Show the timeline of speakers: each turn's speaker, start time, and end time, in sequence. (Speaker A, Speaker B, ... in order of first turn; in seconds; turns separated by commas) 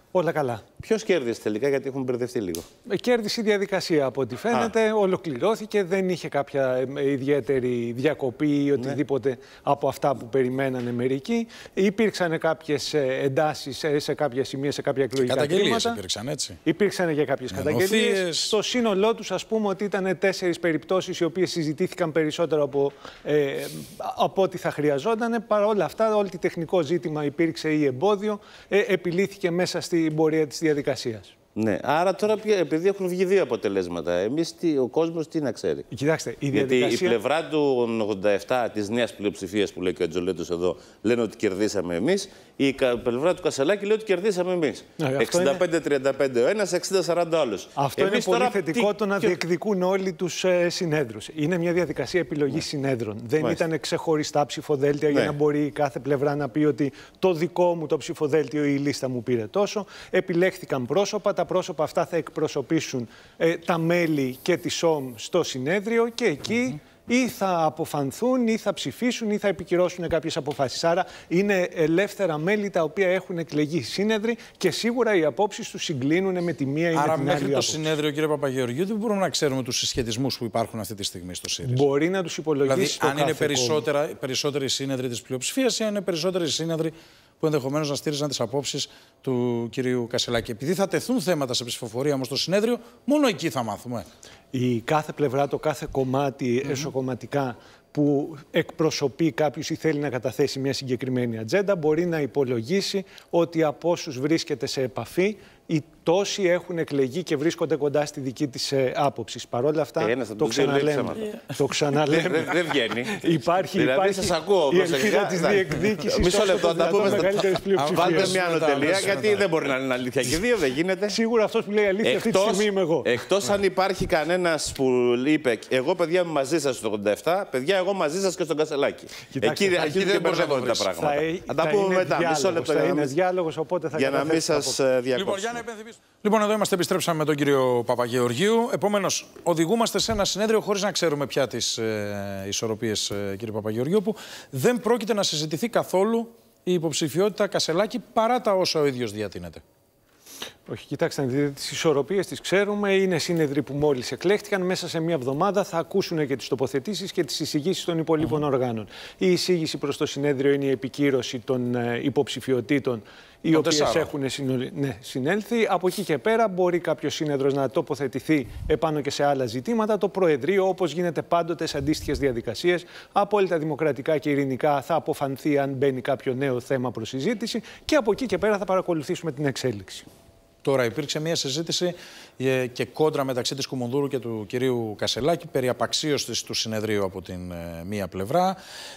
Speaker A: 0.1-0.6, Speaker B: 0.8-2.6, Speaker A: 2.9-16.0, Speaker C: 15.2-16.6, Speaker A: 16.6-31.3, Speaker C: 17.5-18.5, Speaker B: 31.6-35.9, Speaker A: 35.9-37.2, Speaker B: 36.5-49.4, Speaker A: 45.0-45.6, Speaker A: 47.8-77.9, Speaker C: 76.9-81.8, Speaker A: 81.6-83.8, Speaker C: 82.7-94.0, Speaker A: 94.5-112.5, Speaker B: 110.0-111.3, Speaker B: 112.1-113.2, Speaker A: 113.0-118.4, Speaker B: 113.7-121.2, Speaker C: 116.9-119.4, Speaker A: 121.1-123.1, Speaker B: 122.0-133.1, Speaker A: 129.3-134.8, Speaker C: 129.8-130.9, Speaker B: 133.9-135.6, Speaker C: 135.1-149.6, Speaker A: 150.7-180.1, Speaker C: 163.5-164.1, Speaker C: 180.6-188.6